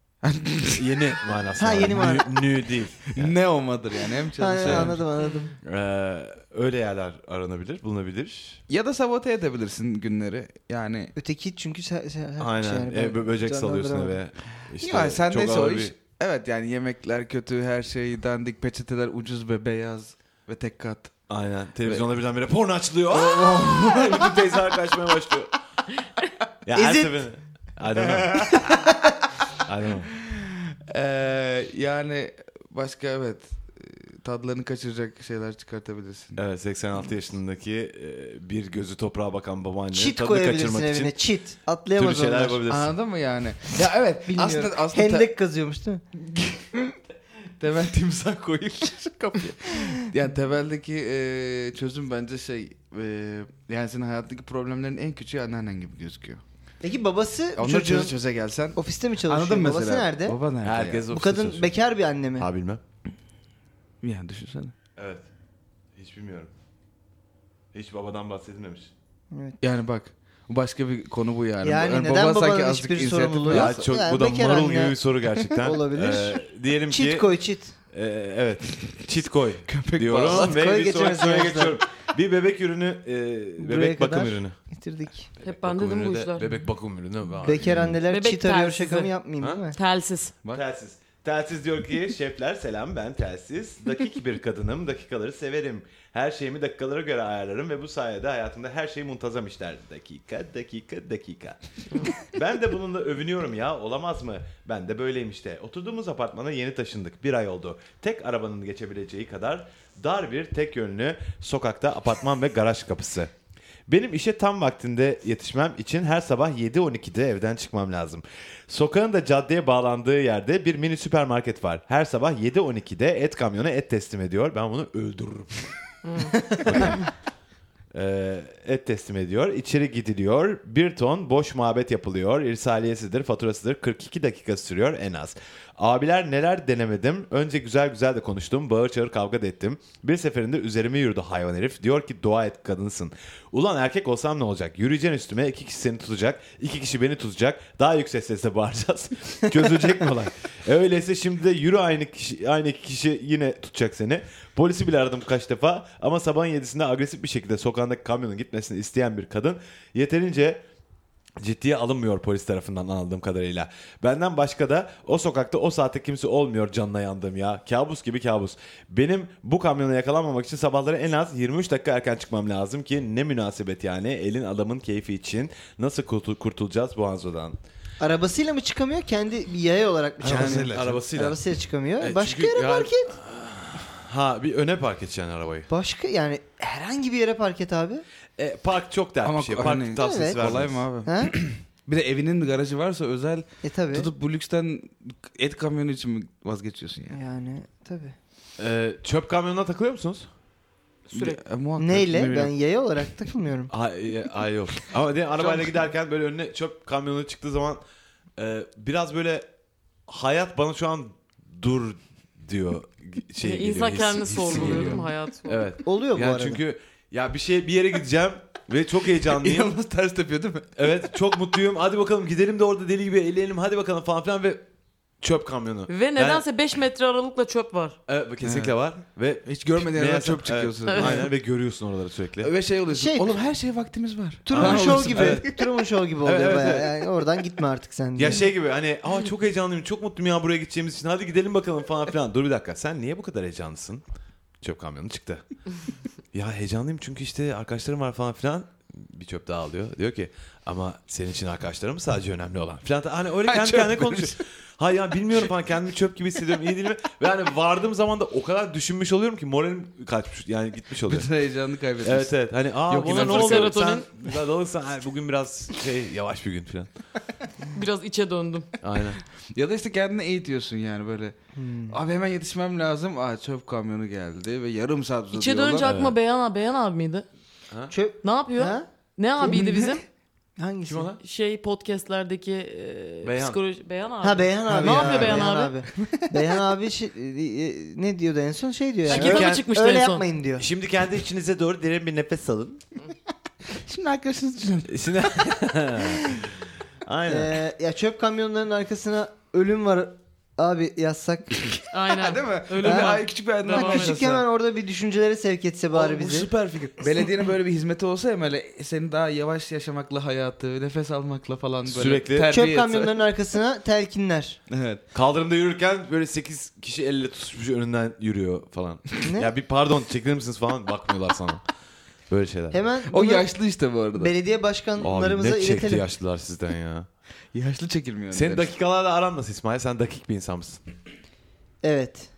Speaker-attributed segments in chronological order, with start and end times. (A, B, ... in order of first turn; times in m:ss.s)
0:00.2-0:01.0 A
0:00.8-0:03.4 B
0:01.6-0:02.3 C
0:03.1-0:05.0 A
0:04.4-0:05.5 C
0:04.6-0:04.9 B
0:05.6-0:08.6 B
0:08.7-0:11.1 A
0:11.2-0:14.2 C
0:12.4-0:15.9 B
0:14.8-0:21.2 A
0:21.3-0:25.5 B
0:23.3-0:24.2 A
0:26.6-0:28.9 B
0:26.8-0:27.2 C
0:28.6-0:28.9 C
0:29.6-0:30.1 B
0:30.9-0:36.4 A
0:36.4-0:41.2 B
0:39.9-0:42.6 C
0:42.0-0:42.9 B
0:42.7-0:45.3 A
0:44.3-0:46.0 C
0:46.2-0:46.8 A
0:47.6-0:56.4 A
0:56.8-0:58.2 C
0:57.6-1:01.0 A
0:58.8-1:00.4 C
1:00.6-1:01.7 B
1:01.1-1:02.5 C
1:02.4-1:02.8 B
1:04.0-1:04.7 A
1:05.0-1:05.3 B
1:06.0-1:06.5 B
1:07.7-1:08.9 B
1:09.3-1:09.6 C
1:09.6-1:13.8 A
1:11.6-1:15.0 C
1:13.5-1:17.3 B
1:15.6-1:17.7 C
1:17.9-1:24.6 B
1:19.7-1:20.5 A
1:20.3-1:21.8 C
1:23.6-1:25.3 C
1:25.4-1:28.0 B
1:25.4-1:26.6 D
1:27.4-1:29.8 C
1:28.1-1:29.1 D
1:29.7-1:30.3 D
1:30.5-1:53.3 B
1:53.9-2:05.7 B
2:06.0-2:06.3 D
2:06.5-2:07.1 B
2:07.9-2:40.6 B
2:41.4-2:57.6 B
2:58.0-3:03.1 C
3:00.2-3:01.0 A
3:00.2-3:01.4 B
3:02.0-3:05.7 B
3:05.7-3:08.0 C
3:08.4-3:10.9 B
3:09.2-3:17.2 A
3:10.0-3:10.4 C
3:11.0-3:11.3 C
3:13.6-3:14.1 C
3:17.1-3:18.2 C
3:18.6-3:20.3 B
3:21.1-3:21.4 D
3:21.1-3:22.5 A
3:21.8-3:23.7 C
3:23.7-3:27.8 B
3:28.4-3:29.5 B
3:30.1-3:39.7 B
3:33.4-3:35.7 D
3:34.5-3:35.1 A
3:35.8-3:36.6 C
3:39.2-3:41.0 A
3:40.8-3:44.7 B
3:45.2-3:46.4 B
3:45.9-3:48.0 D
3:48.1-3:52.5 B
3:48.4-3:48.8 A
3:49.5-3:51.3 A
3:50.9-3:51.2 D
3:52.4-3:55.6 A
3:52.9-3:53.4 C
3:54.5-3:58.5 C
3:54.5-3:55.5 B
3:56.2-3:56.9 B
3:58.2-4:04.0 B
4:04.6-4:05.4 B
4:06.3-4:21.3 B
4:13.5-4:14.4 A
4:21.1-4:22.3 A
4:22.0-4:26.9 B
4:22.9-4:23.8 A
4:23.0-4:24.1 D
4:27.7-4:28.7 D
4:28.8-4:29.2 B
4:29.5-4:31.4 A
4:31.6-4:32.0 C
4:31.9-4:36.0 A
4:35.3-4:37.3 D
4:35.8-4:36.2 B
4:37.9-4:38.9 C
4:38.2-4:40.0 D
4:39.4-4:40.0 C
4:40.6-4:41.1 C
4:40.9-4:41.2 B
4:41.2-4:45.8 D
4:43.2-4:43.6 B
4:44.2-4:50.7 C
4:44.7-4:45.5 A
4:49.1-4:49.7 B
4:49.1-4:50.2 D
4:50.6-4:52.8 B
4:53.7-4:55.0 A
4:54.9-4:57.6 B
4:57.3-5:01.8 C
5:01.9-5:04.2 D
5:02.1-5:04.4 A
5:02.8-5:03.1 C
5:03.7-5:06.5 C
5:05.9-5:13.2 A
5:11.9-5:12.5 B
5:12.5-5:14.6 C
5:14.7-5:15.0 A
5:15.1-5:21.6 B
5:19.2-5:19.5 C
5:22.3-5:22.8 B
5:22.7-5:23.5 C
5:23.1-5:24.3 A
5:24.2-5:26.0 C
5:25.0-5:27.1 B
5:27.5-5:28.7 A
5:28.3-5:30.8 B
5:31.8-5:32.3 C